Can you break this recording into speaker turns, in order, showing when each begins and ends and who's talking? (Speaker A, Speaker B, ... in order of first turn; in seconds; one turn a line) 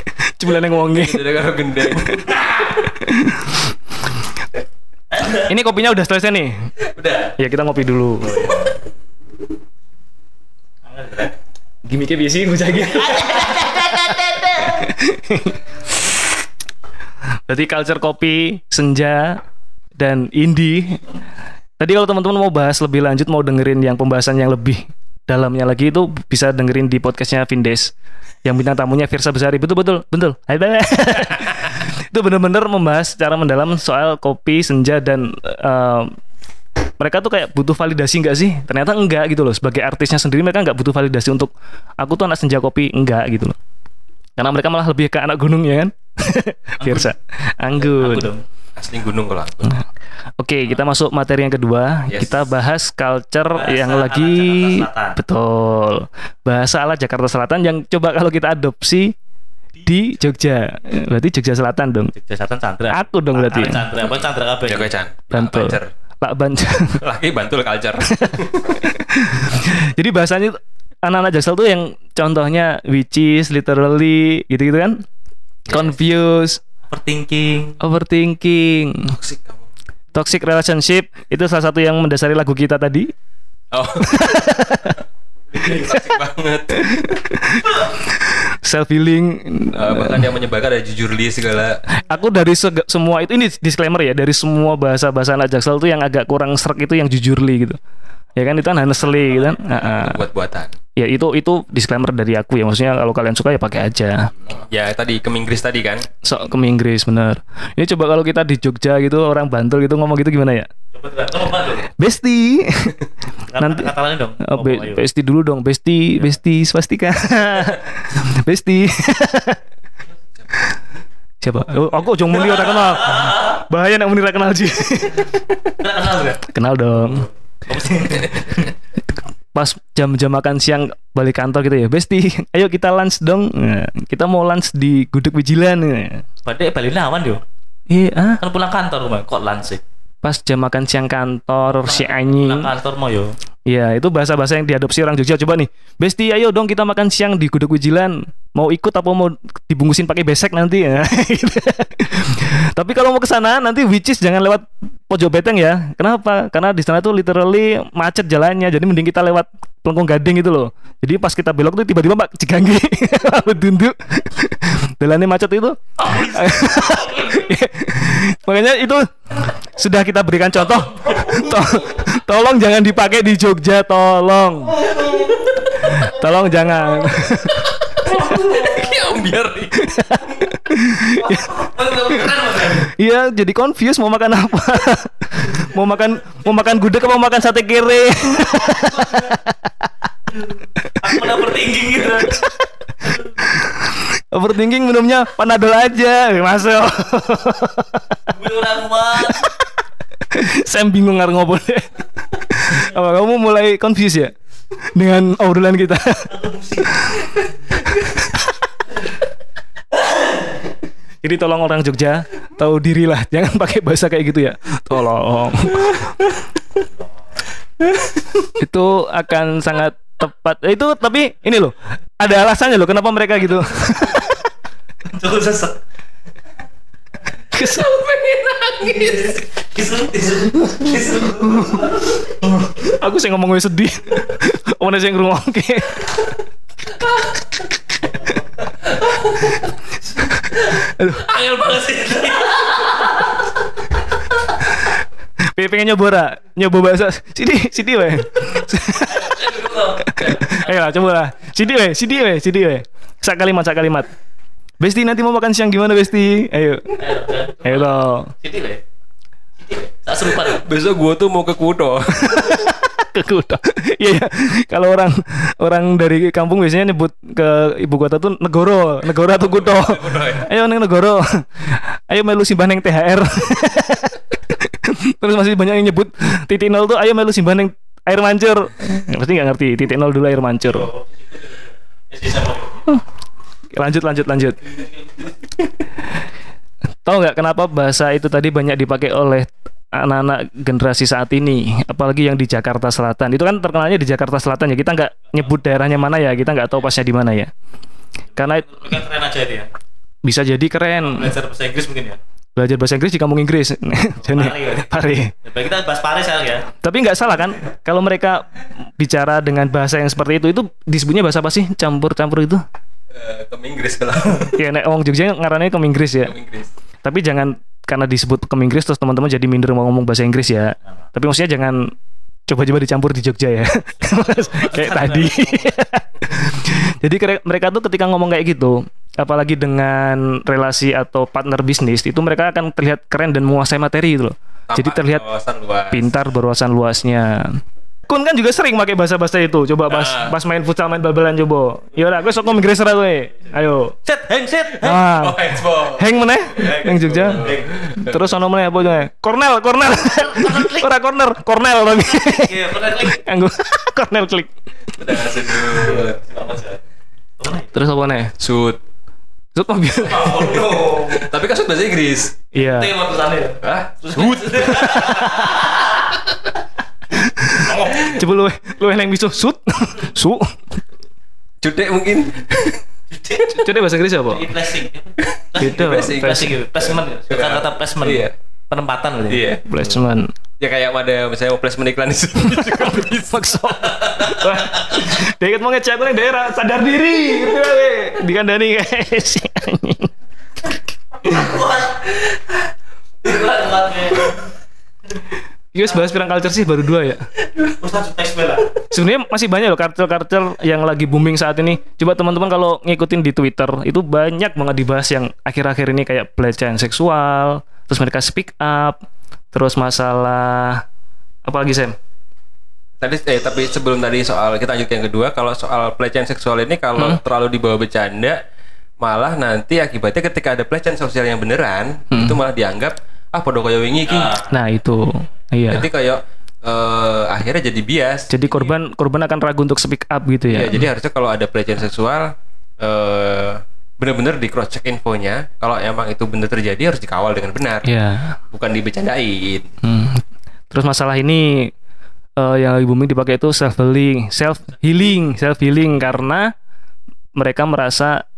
Speaker A: 0.2-1.3
Speaker B: 0.9-2.4
Speaker A: 1.9-3.7
Speaker C: 5.1-5.5
Speaker A: 5.5-6.7
Speaker B: 6.8-7.3
Speaker A: 7.4-8.5
Speaker C: 8.2-8.7
Speaker C: 10.8-11.3
Speaker A: 11.8-15.6
Speaker C: 12.9-14.9
Speaker A: 17.5-19.4
Speaker A: 20.0-21.0
Speaker A: 21.8-27.9
Speaker A: 28.4-36.1
Speaker A: 37.0-43.5
Speaker A: 44.4-48.3
Speaker C: 46.8-47.1
Speaker C: 47.8-48.4
Speaker B: 48.8-49.8
Speaker A: 50.4-59.1
Speaker B: 52.1-52.5
Speaker C: 53.6-55.2
Speaker A: 59.8-62.1
Speaker C: 62.1-64.9
Speaker A: 62.9-63.9
Speaker B: 64.0-65.9
Speaker A: 65.3-67.0
Speaker B: 67.0-68.8
Speaker A: 68.2-75.0
Speaker A: 75.7-76.6
Speaker C: 76.9-77.8
Speaker A: 77.8-79.2
Speaker B: 79.1-79.6
Speaker A: 80.1-83.1
Speaker B: 83.7-84.5
Speaker A: 84.1-85.0
Speaker B: 85.5-86.9
Speaker A: 86.7-90.3
Speaker B: 89.7-91.8
Speaker A: 91.9-97.8
Speaker A: 98.3-100.2
Speaker B: 99.6-100.7
Speaker A: 101.0-104.3
Speaker B: 104.7-106.0
Speaker A: 106.2-110.7
Speaker C: 110.9-111.9
Speaker A: 112.0-113.0
Speaker C: 113.5-115.0
Speaker A: 113.6-113.9
Speaker A: 114.4-119.6
Speaker A: 121.4-125.7
Speaker C: 122.4-123.5
Speaker C: 125.8-126.4
Speaker A: 126.5-127.3
Speaker C: 127.7-128.7
Speaker A: 129.5-136.2
Speaker C: 136.4-137.4
Speaker A: 137.9-138.4
Speaker C: 138.4-139.8
Speaker A: 140.2-142.7
Speaker C: 141.8-143.3
Speaker A: 143.7-174.8
Speaker C: 166.1-167.4
Speaker A: 175.8-177.7
Speaker B: 177.5-180.2
Speaker C: 178.4-178.8
Speaker A: 179.8-181.6
Speaker C: 181.1-182.9
Speaker A: 182.2-189.9
Speaker C: 189.0-189.3
Speaker C: 191.0-192.5
Speaker A: 191.0-191.3
Speaker A: 192.2-192.6
Speaker A: 193.4-198.1
Speaker C: 198.3-199.5
Speaker A: 199.2-199.6
Speaker A: 200.3-204.3
Speaker A: 204.9-208.5
Speaker C: 206.3-207.0
Speaker A: 211.2-216.1
Speaker A: 218.5-224.5
Speaker C: 225.1-225.8
Speaker A: 227.5-229.4
Speaker C: 229.0-232.8
Speaker A: 231.4-232.0
Speaker A: 232.8-236.2
Speaker A: 240.5-241.4
Speaker C: 241.3-243.3
Speaker A: 245.5-254.1
Speaker C: 248.9-250.7
Speaker A: 254.8-256.9
Speaker C: 257.0-258.8
Speaker A: 257.6-258.3
Speaker C: 259.6-260.6
Speaker B: 260.3-262.7
Speaker A: 262.3-280.9
Speaker B: 269.2-270.5
Speaker C: 280.6-282.9
Speaker A: 283.8-284.6
Speaker C: 284.7-285.3
Speaker A: 287.0-297.5
Speaker A: 298.4-298.9
Speaker C: 298.4-299.7
Speaker A: 300.2-301.3
Speaker C: 301.0-302.2
Speaker A: 302.6-305.3
Speaker C: 304.2-304.9
Speaker C: 305.4-306.7
Speaker A: 306.8-308.5
Speaker A: 309.0-312.6
Speaker B: 313.1-314.6
Speaker A: 314.5-316.3
Speaker B: 316.2-316.7
Speaker A: 317.0-321.9
Speaker A: 322.5-335.2
Speaker C: 324.0-325.8
Speaker B: 334.7-336.1
Speaker A: 335.9-344.0
Speaker B: 339.9-340.4
Speaker C: 344.1-345.0
Speaker A: 344.8-354.5
Speaker B: 345.1-346.1
Speaker C: 346.5-347.8
Speaker B: 347.2-348.3
Speaker C: 350.1-350.9
Speaker C: 352.0-353.2
Speaker B: 354.9-356.2
Speaker C: 355.8-356.8
Speaker C: 357.4-357.7
Speaker A: 357.7-358.3
Speaker B: 358.4-358.8
Speaker A: 359.5-361.0
Speaker C: 359.9-361.3
Speaker B: 361.1-362.4
Speaker A: 362.5-362.9
Speaker C: 362.6-366.0
Speaker B: 363.6-365.1
Speaker A: 364.7-365.7
Speaker A: 367.1-370.6
Speaker C: 367.5-368.2
Speaker B: 371.6-372.7
Speaker C: 373.1-373.6
Speaker A: 373.5-374.5
Speaker C: 374.2-379.4
Speaker B: 375.4-378.3
Speaker A: 375.6-376.6
Speaker B: 379.3-379.6
Speaker A: 379.6-380.3
Speaker B: 380.6-384.0
Speaker A: 382.5-390.1
Speaker C: 391.2-392.5
Speaker C: 393.2-394.4
Speaker A: 395.7-397.2
Speaker C: 397.6-398.7
Speaker A: 398.9-409.0
Speaker A: 409.5-410.8
Speaker A: 411.4-411.9
Speaker B: 413.0-418.4
Speaker B: 419.0-424.3
Speaker A: 422.1-422.4
Speaker C: 424.1-424.5
Speaker A: 424.5-425.9
Speaker B: 425.7-428.7
Speaker A: 428.3-430.8
Speaker B: 430.5-437.9
Speaker A: 437.8-438.4
Speaker B: 438.5-439.7
Speaker A: 439.8-441.7
Speaker A: 442.4-446.5
Speaker A: 447.4-448.2